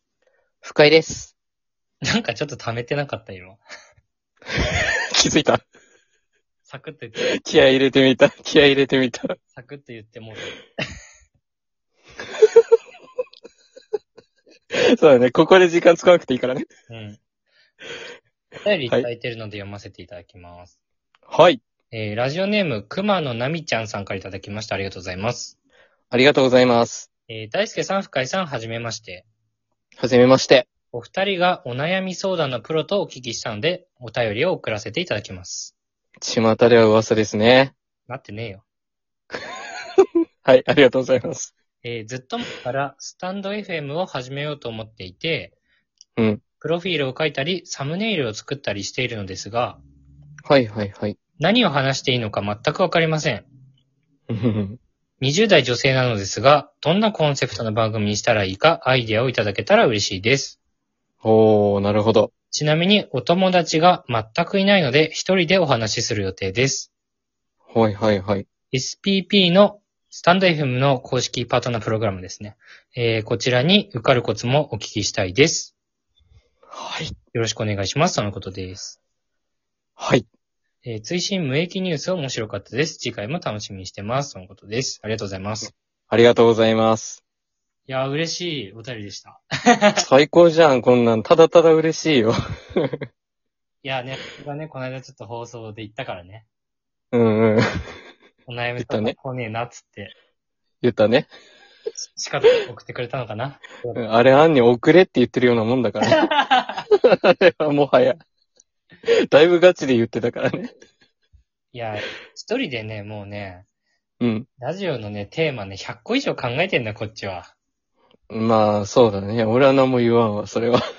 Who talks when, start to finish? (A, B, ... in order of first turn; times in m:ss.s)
0:00.6-0:01.3 A
0:02.0-0:03.6 B
0:04.6-0:05.6 A
0:06.6-0:07.3 B
0:07.2-0:09.3 A
0:09.5-0:10.6 B
0:14.7-0:16.6 A
0:16.9-0:17.2 B
0:18.6-0:20.8 B
0:21.3-0:21.6 A
0:21.9-0:25.6 B
0:26.1-0:27.1 A
0:27.3-0:29.3 B
0:30.0-0:30.7 A
0:30.9-0:35.7 B
0:36.2-0:37.7 A
0:38.1-0:38.6 B
0:40.4-0:41.5 A
0:41.8-0:45.5 B
0:46.2-0:46.4 A
0:46.6-0:49.8 B
0:50.4-0:51.2 A
0:51.4-0:53.5 B
0:54.3-0:54.8 A
0:55.2-1:00.6 B
1:01.2-1:02.3 A
1:02.5-1:06.9 B
1:07.7-1:08.5 A
1:08.7-1:15.7 B
1:16.7-1:17.1 A
1:17.3-1:19.0 B
1:20.0-1:20.2 A
1:20.8-1:25.7 B
1:26.1-1:27.2 A
1:27.9-1:30.0 B
1:30.0-1:33.0 A
1:33.8-1:36.5 B
1:37.1-1:37.6 A
1:38.4-1:40.1 B
1:38.8-1:39.1 A
1:40.8-1:41.3 A
1:42.0-1:44.0 B
1:43.9-1:46.2 A
1:46.0-1:46.9 B
1:46.9-1:48.2 A
1:49.1-1:50.7 A
1:51.7-1:53.6 B
1:54.2-1:54.5 A
1:54.6-1:57.5 B
1:58.3-2:00.8 A